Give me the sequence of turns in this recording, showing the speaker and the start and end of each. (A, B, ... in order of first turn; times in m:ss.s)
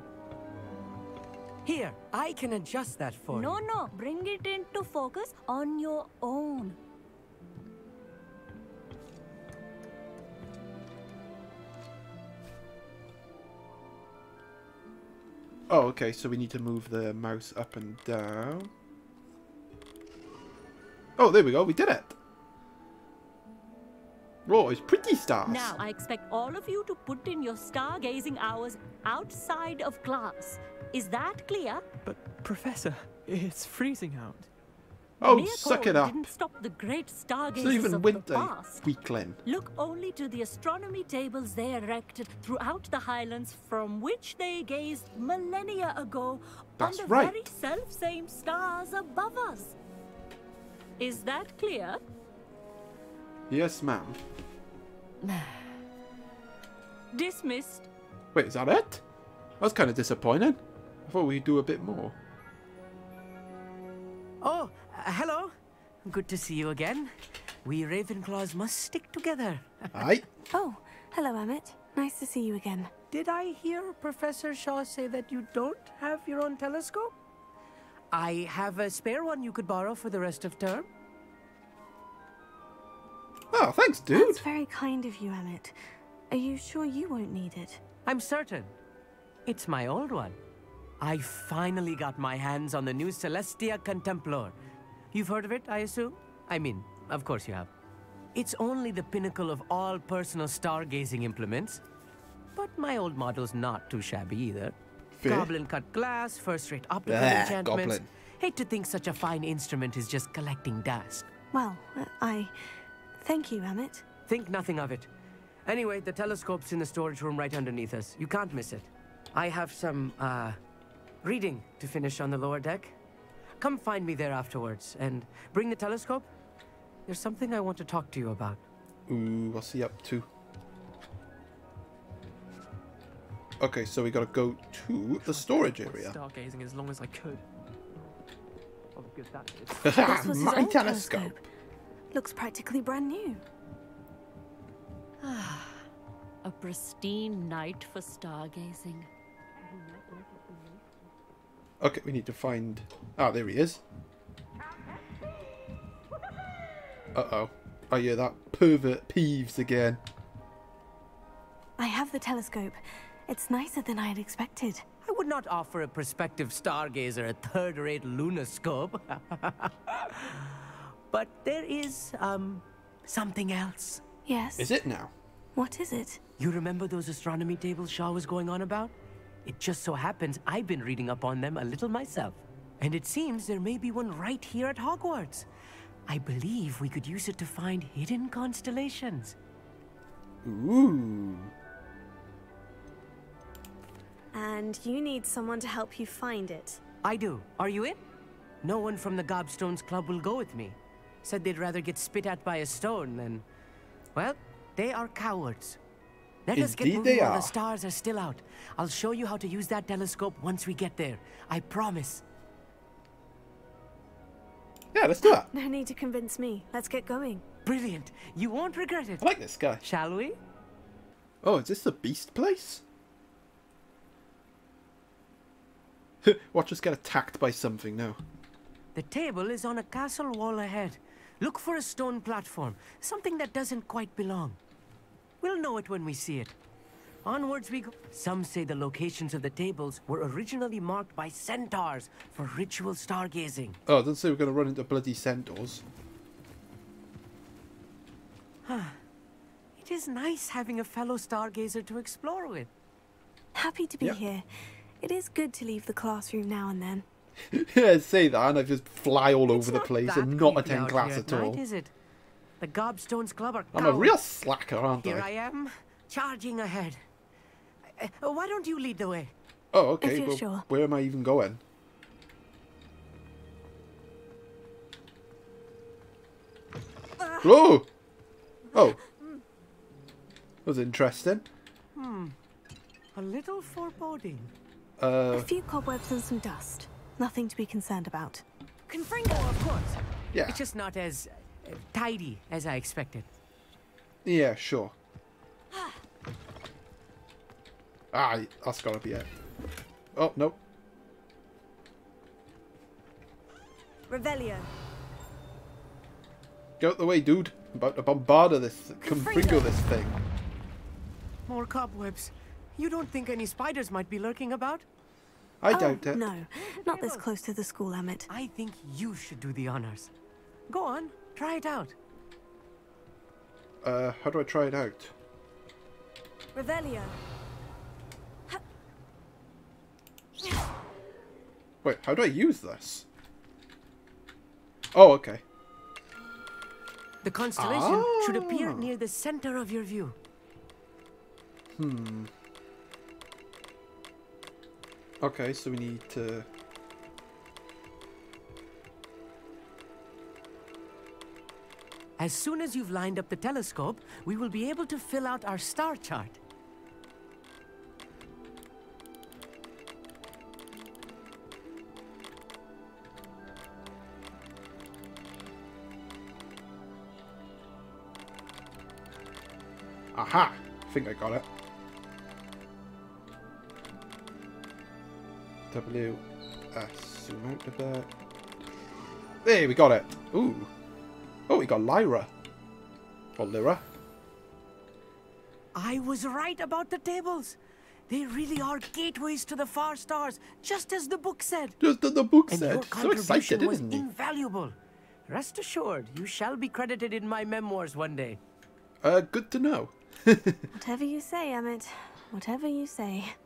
0:01.6-0:03.6 A
0:03.3-0:06.8 B
0:15.7-0:18.7 C
0:21.2-0:22.2 C
0:24.5-0:25.8 C
0:25.5-0:31.8 B
0:32.0-0:34.5 D
0:35.2-0:36.3 C
0:35.2-0:38.8 B
0:37.5-0:39.4 C
0:39.4-0:49.8 B
0:46.8-0:47.5 C
0:51.0-0:52.0 B
0:53.5-0:54.2 C
0:57.1-0:57.9 B
0:58.3-0:59.0 C
0:59.6-1:02.2 C
1:04.4-1:05.5 A
1:06.0-1:07.1 A
1:07.6-1:10.1 A
1:09.9-1:10.2 C
1:10.5-1:12.9 E
1:13.1-1:17.1 A
1:18.1-1:20.9 A
1:23.5-1:24.4 C
1:24.1-1:25.8 E
1:26.3-1:27.8 E
1:28.1-1:28.7 A
1:29.5-1:30.4 A
1:31.0-1:34.6 A
1:35.1-1:37.7 A
1:38.4-1:41.8 A
1:42.6-1:51.3 A
1:45.2-1:45.5 C
1:47.1-1:48.1 C
1:51.5-1:52.5 E
1:53.2-1:54.0 E
1:54.3-1:55.1 A
1:55.7-2:00.6 A
2:01.2-2:03.0 A
2:03.6-2:06.3 A
2:07.1-2:08.6 A
2:09.1-2:10.3 C
2:13.6-2:16.2 C
2:15.2-2:17.4 D
2:19.0-2:20.3 D
2:19.8-2:21.4 C
2:20.0-2:21.4 E
2:22.1-2:23.4 E
2:25.3-2:25.7 B
2:26.4-2:29.1 B
2:31.8-2:33.8 C
2:37.1-2:40.0 C
2:41.8-2:44.8 E
2:45.0-2:54.0 A
2:54.3-2:54.7 E
2:54.6-2:55.1 C
2:55.6-2:56.2 E
2:56.4-2:58.9 A
2:59.4-3:05.5 A
3:06.1-3:09.4 A
3:10.4-3:11.5 C
3:14.3-3:16.8 E
3:17.0-3:18.0 A
3:18.6-3:23.4 A
3:24.2-3:25.8 A
3:26.5-3:32.2 A
3:26.6-3:27.5 C
3:34.9-3:35.5 C
3:35.2-3:37.4 E
3:37.6-3:39.3 A
3:39.2-3:39.8 C
3:39.8-3:40.4 A
3:41.4-3:42.8 C
3:46.2-3:48.2 C
3:49.0-3:54.6 A
3:55.4-3:56.6 A
3:57.2-4:03.8 A
4:03.9-4:05.8 C
4:08.6-4:09.0 A
4:09.8-4:12.7 A
4:13.6-4:14.4 E
4:15.0-4:17.1 E
4:17.5-4:21.6 C
4:19.5-4:21.9 A
4:22.6-4:24.2 A
4:23.7-4:25.3 C
4:25.0-4:27.0 A
4:28.0-4:29.3 A
4:29.7-4:31.6 C
4:30.0-4:30.7 E
4:37.4-4:37.9 C
4:38.7-4:39.0 C
4:40.6-4:41.4 C
4:42.0-4:42.4 A
4:43.2-4:44.5 A
4:45.0-4:45.5 C
4:45.3-4:48.4 E
4:48.9-4:53.3 A
4:50.3-4:50.6 C
4:54.2-4:54.9 C
4:58.1-4:59.3 C
5:00.2-5:00.6 C
5:04.1-5:04.7 E
5:06.8-5:10.2 C
5:09.0-5:09.7 E
5:11.5-5:14.8 A
5:15.6-5:16.2 C
5:15.7-5:18.3 E
5:16.6-5:17.2 A
5:18.3-5:20.1 A
5:20.7-5:22.0 A
5:23.8-5:25.1 C
5:26.6-5:27.2 E
5:31.8-5:33.1 C
5:34.9-5:35.4 C
5:37.2-5:40.2 A
5:37.6-5:38.9 C
5:41.8-5:42.3 C
5:45.2-5:46.5 C
5:52.2-5:56.4 A
6:10.1-6:11.5 C
6:15.7-6:16.2 C
6:16.7-6:18.1 C
6:19.4-6:20.7 C
6:21.5-6:22.3 C
6:23.4-6:23.8 C
6:25.8-6:27.6 A
6:28.1-6:31.8 A
6:31.8-6:34.0 C
6:32.5-6:34.8 A
6:35.3-6:38.4 A
6:39.0-6:40.7 C
6:40.8-6:43.4 E